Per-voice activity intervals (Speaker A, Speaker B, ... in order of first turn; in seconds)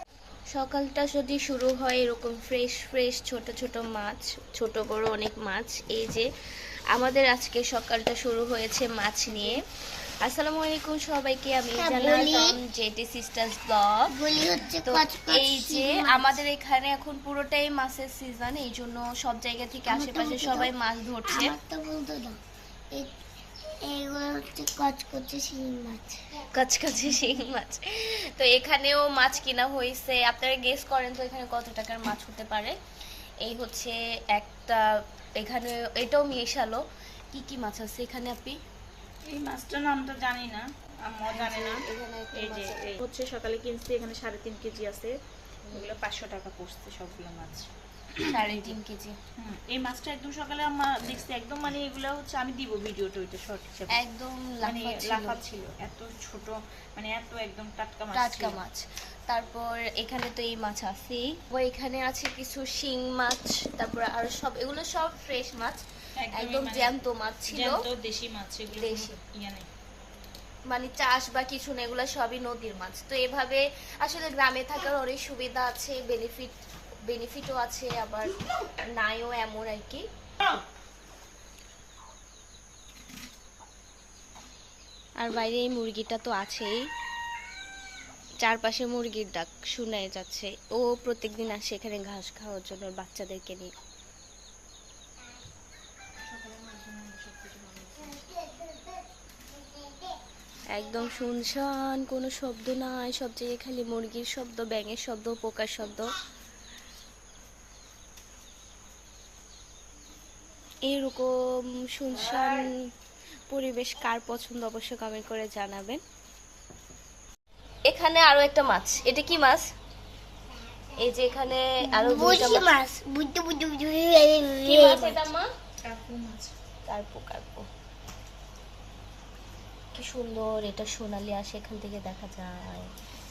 Speaker A: 0.5-6.2, 6.9-9.6, 10.2-14.1, 14.8-21.5, 26.5-32.7, 33.4-34.8, 35.4-36.8, 37.3-38.6, 41.3-43.0, 48.2-49.2, 53.9-55.4, 58.1-65.8, 66.3-67.8, 68.7-69.2, 70.7-78.3, 78.9-80.0, 85.2-86.8, 88.4-93.7, 100.7-106.1, 110.9-111.3, 111.9-112.7, 113.5-116.0, 117.9-119.7, 121.0-122.7, 124.6-125.5, 126.9-127.7, 129.9-132.9
Speaker B: 11.7-12.6, 14.1-16.4, 19.9-20.7, 21.2-22.4, 23.8-26.2, 121.8-125.2
Speaker C: 39.3-41.8, 42.4-45.1, 45.7-48.8, 49.4-54.0, 54.6-58.6, 66.2-66.9, 67.5-69.7, 96.2-98.2, 125.8-126.5